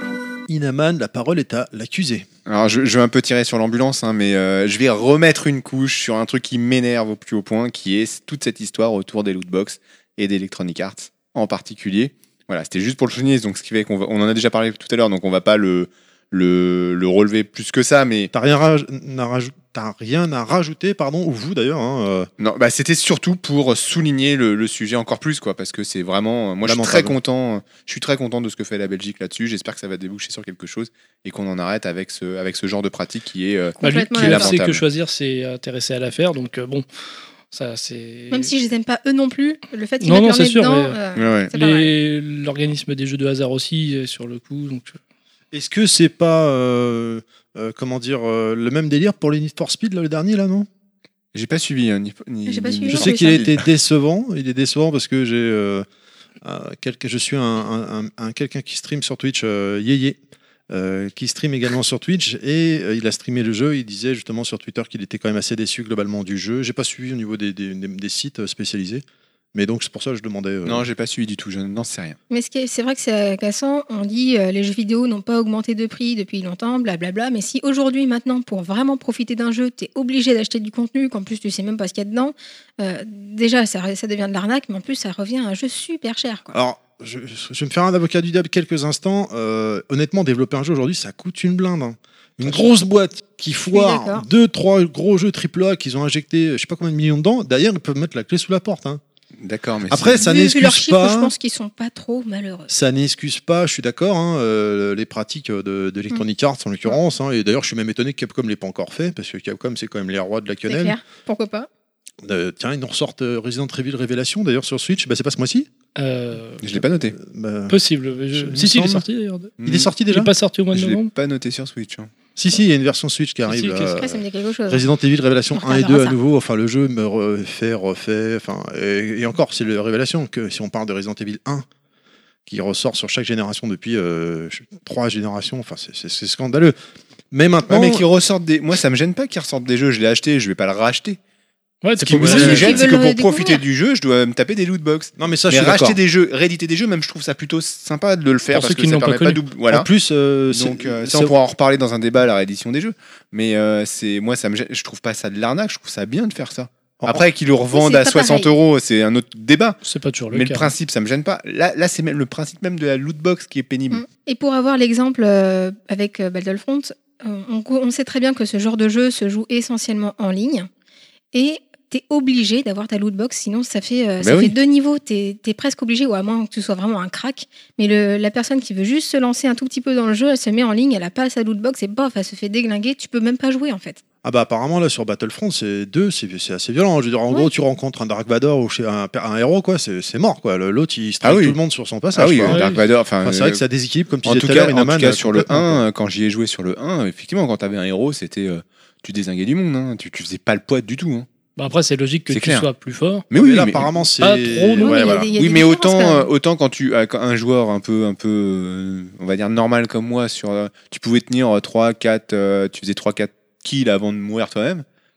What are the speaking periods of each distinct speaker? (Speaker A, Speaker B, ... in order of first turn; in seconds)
Speaker A: 0.5-2.3, 18.3-22.3, 26.6-27.2, 45.5-50.7, 52.9-55.9, 56.4-60.2, 60.7-70.8, 86.5-99.0, 99.9-101.3, 102.7-111.0, 112.2-115.7, 117.1-117.8, 118.3-119.0, 119.6-120.3, 122.4-131.7, 132.5-136.8, 137.3-138.0, 142.1-142.8, 145.2-146.0, 149.7-151.3, 184.2-192.7, 193.2-195.8, 203.3-205.3
Speaker B: 2.5-18.3, 22.4-34.8, 41.2-41.5, 51.3-53.6, 70.7-72.2, 99.4-100.2, 116.6-117.2, 119.6-119.9, 120.7-122.1, 137.7-141.2, 142.0-149.9, 150.5-159.8, 160.3-164.0, 174.2-174.5, 191.2-191.6, 192.1-193.6, 194.2-201.3, 202.3-202.7, 203.3-203.9, 205.4-214.8
Speaker C: 33.8-34.6, 38.3-41.9, 52.5-53.4, 72.3-86.6, 93.7-94.3, 100.2-102.7, 110.7-111.7, 123.8-124.8, 125.5-126.2, 142.4-143.6, 157.7-158.5, 163.9-170.7, 171.3-184.0, 204.8-206.3
Speaker D: 33.8-36.9, 37.5-38.5, 40.0-41.0, 41.5-45.0, 116.0-116.6, 117.7-119.5, 120.1-121.1, 123.5-123.8, 141.8-142.8, 148.5-149.4, 159.8-160.7, 192.5-192.8, 201.6-203.2, 204.2-205.2